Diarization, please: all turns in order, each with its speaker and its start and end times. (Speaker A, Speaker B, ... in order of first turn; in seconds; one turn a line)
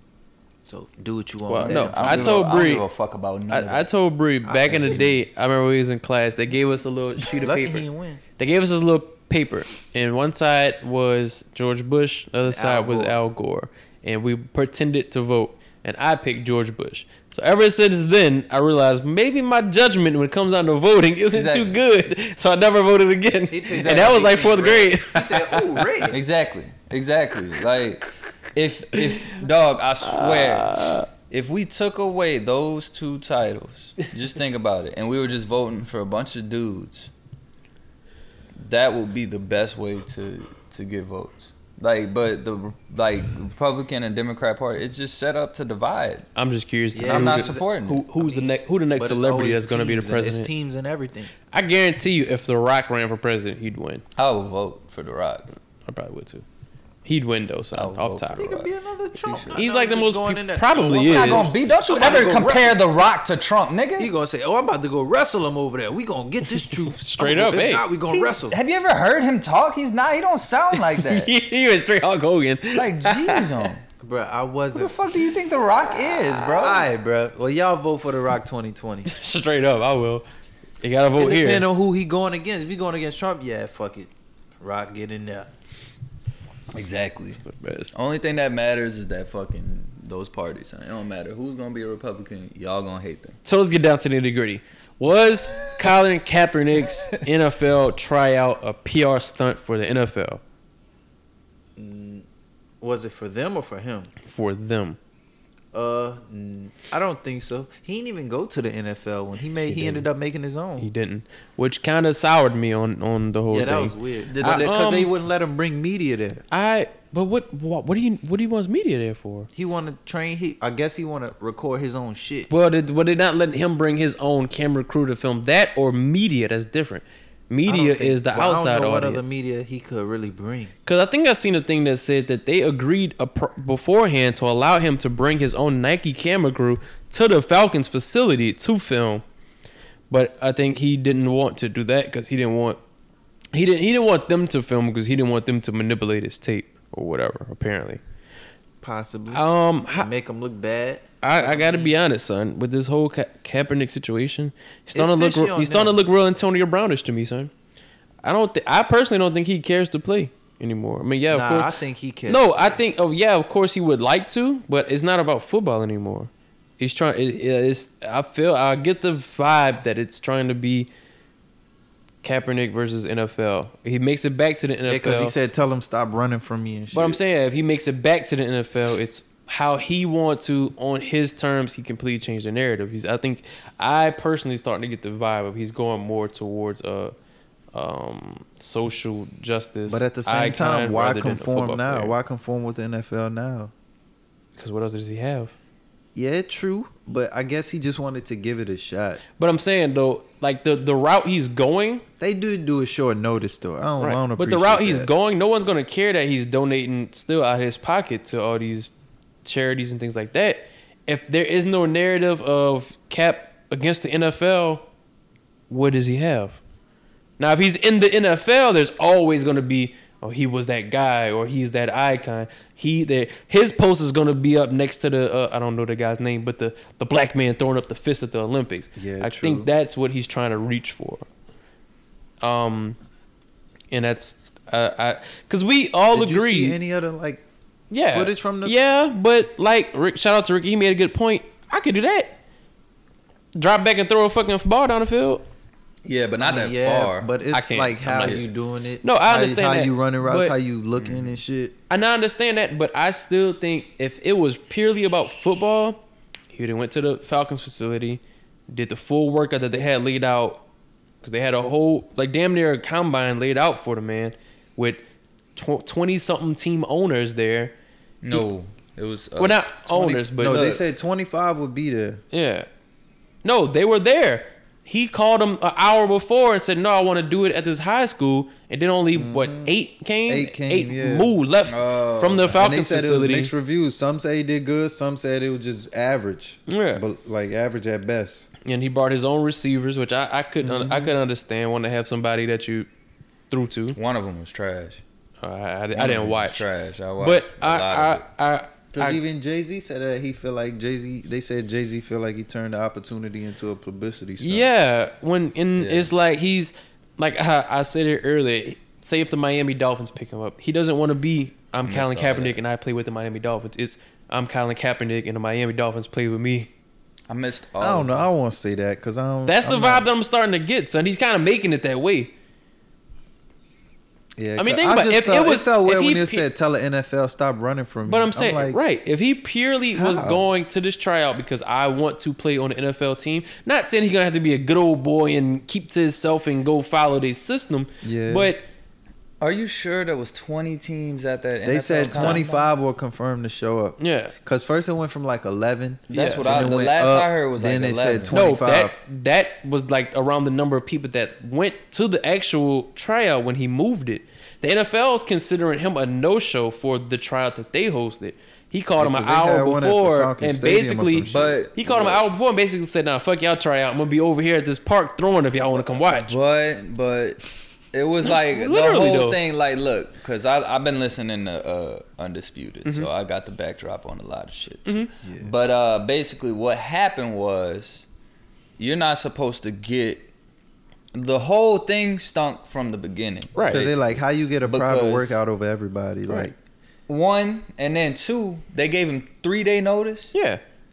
Speaker A: 0.6-2.5
Speaker B: 1.5-2.9
Speaker C: 1.6-3.9
Speaker B: 3.5-7.9
Speaker A: 4.4-5.1
Speaker C: 4.7-5.1
Speaker A: 7.3-8.2
Speaker B: 8.4-26.1
Speaker A: 12.4-13.2
Speaker C: 21.3-21.8
Speaker A: 23.5-26.2
Speaker C: 23.7-24.6
Speaker C: 26.1-37.1
Speaker B: 28.9-29.4
Speaker B: 30.0-31.1
Speaker C: 38.6-46.3
Speaker B: 46.4-50.5
Speaker A: 46.9-51.3
Speaker C: 47.0-48.0
Speaker B: 51.5-54.0
Speaker C: 54.1-55.5
Speaker B: 55.9-56.5
Speaker B: 57.0-58.5
Speaker C: 57.7-59.6
Speaker A: 58.4-62.8
Speaker B: 59.5-61.5
Speaker C: 60.8-64.1
Speaker A: 64.0-68.6
Speaker B: 66.5-67.9
Speaker C: 68.5-71.3
Speaker B: 70.7-73.7
Speaker C: 72.7-73.8
Speaker A: 74.0-75.0
Speaker C: 74.7-76.9
Speaker A: 76.5-79.1
Speaker B: 79.0-80.2
Speaker B: 80.8-81.7
Speaker A: 81.1-85.5
Speaker C: 86.7-93.4
Speaker B: 87.4-87.9
Speaker B: 93.4-100.4
Speaker C: 96.9-97.2
Speaker A: 101.8-102.2
Speaker A: 102.8-104.1
Speaker B: 104.2-105.0
Speaker A: 105.7-110.9
Speaker B: 109.7-110.0
Speaker B: 110.8-115.1
Speaker A: 113.5-116.4
Speaker C: 114.3-114.7
Speaker B: 116.5-119.5
Speaker A: 119.5-122.5
Speaker B: 122.5-129.2
Speaker A: 127.7-130.7
Speaker B: 130.8-139.2
Speaker B: 140.1-142.8
Speaker B: 143.5-148.0
Speaker A: 148.8-152.0
Speaker B: 149.3-150.1
Speaker B: 151.2-157.5
Speaker A: 154.9-156.0
Speaker B: 158.2-161.7
Speaker A: 161.3-162.8
Speaker B: 162.2-170.9
Speaker B: 172.2-175.4
Speaker A: 174.8-177.2
Speaker B: 176.9-187.1
Speaker B: 187.7-192.2
Speaker A: 189.9-193.7
Speaker B: 194.6-195.5
Speaker A: 196.1-199.2
Speaker B: 199.4-202.0
Speaker A: 202.2-205.1
Speaker B: 204.0-208.9
Speaker B: 209.4-214.8
Speaker B: 215.7-216.6
Speaker B: 217.4-231.2
Speaker A: 228.9-229.7
Speaker B: 232.4-233.0
Speaker B: 233.9-236.8
Speaker A: 236.1-237.4
Speaker B: 237.9-242.3
Speaker A: 238.1-238.8
Speaker B: 243.5-245.4
Speaker C: 246.0-247.3
Speaker A: 246.4-251.8
Speaker B: 247.5-248.5
Speaker C: 248.2-248.5
Speaker B: 249.0-250.5
Speaker C: 250.9-251.3
Speaker B: 251.9-256.0
Speaker B: 256.5-260.6
Speaker B: 261.2-265.0
Speaker B: 265.6-267.7
Speaker C: 268.2-269.6
Speaker B: 269.4-270.6
Speaker A: 269.9-272.2
Speaker C: 270.4-270.8
Speaker B: 272.3-272.7
Speaker B: 273.4-283.5
Speaker A: 279.1-279.7
Speaker A: 280.3-281.3
Speaker C: 281.6-282.6
Speaker A: 282.5-288.5
Speaker B: 286.7-287.0
Speaker B: 288.6-292.9
Speaker A: 290.6-291.1
Speaker B: 293.5-294.0
Speaker C: 293.9-295.0
Speaker B: 295.4-296.6
Speaker C: 295.9-298.2
Speaker B: 297.2-299.2
Speaker A: 298.9-304.7
Speaker B: 304.4-316.7
Speaker C: 305.8-306.1
Speaker C: 311.8-312.6
Speaker C: 317.3-318.3
Speaker A: 317.8-320.1
Speaker B: 319.4-322.3
Speaker A: 324.4-328.8
Speaker B: 324.6-326.4
Speaker B: 328.1-338.7
Speaker A: 329.9-330.4
Speaker A: 338.0-338.5
Speaker C: 339.4-342.7
Speaker A: 341.6-348.9
Speaker B: 342.1-342.4
Speaker B: 344.0-344.3
Speaker C: 346.1-348.3
Speaker B: 346.1-346.6
Speaker B: 348.3-366.4
Speaker A: 359.0-361.6
Speaker C: 361.3-362.2
Speaker C: 365.7-378.0
Speaker B: 368.4-369.4
Speaker B: 374.8-375.1
Speaker A: 375.2-375.5
Speaker C: 378.8-380.3
Speaker C: 381.1-385.4
Speaker B: 383.5-383.9
Speaker A: 383.7-386.5
Speaker C: 387.1-390.3
Speaker B: 390.3-390.6